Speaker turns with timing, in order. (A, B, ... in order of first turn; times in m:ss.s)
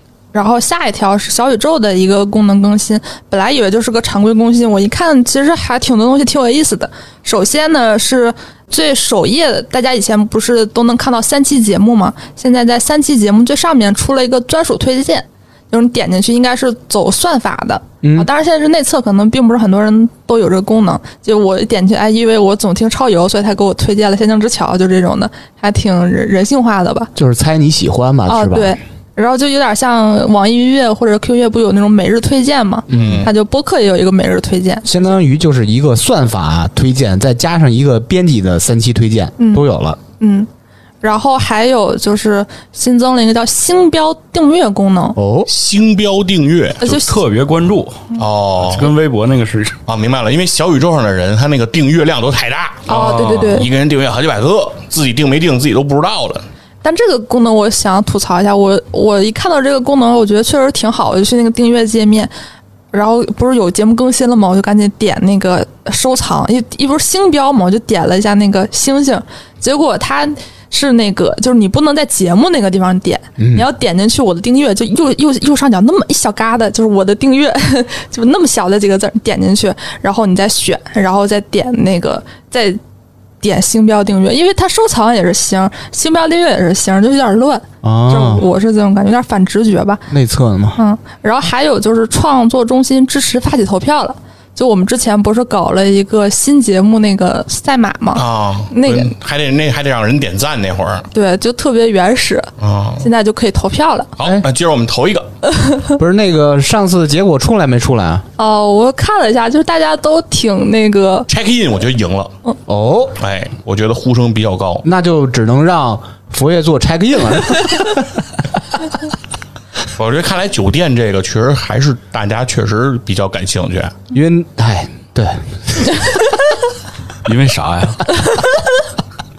0:00.3-0:27.1 A
0:18.0-0:18.3 B
0:27.2-0:28.8 B
0:28.3-0:34.8 A
0:32.9-0:33.3 B
0:32.9-0:33.3 C
0:34.8-0:40.0 B
0:39.4-0:39.6 A
0:40.2-0:40.5 A
0:41.0-0:45.2 A
0:45.2-0:45.5 B
0:45.5-0:46.8 C
0:46.8-0:47.2 A
0:46.8-0:49.8 D
0:48.1-0:48.9 C
0:49.9-0:56.4 C
0:52.9-0:53.7 A
0:52.9-0:53.5 D
0:56.8-1:02.3 A
1:02.9-1:22.8 A
1:13.4-1:13.6 B
1:23.4-1:30.0 A
1:27.8-1:28.4 B
1:30.1-1:30.8 B
1:30.8-1:39.1 A
1:38.1-1:41.1 C
1:41.1-1:44.1 A
1:42.6-1:43.1 C
1:44.2-1:45.3 C
1:46.0-1:48.2 B
1:48.4-1:51.3 A
1:51.3-1:52.3 C
1:52.7-1:53.1 B
1:53.2-1:54.8 C
1:54.8-1:58.2 B
1:59.9-2:03.9 C
2:04.1-2:06.0 B
2:07.2-2:08.1 D
2:08.2-2:08.7 A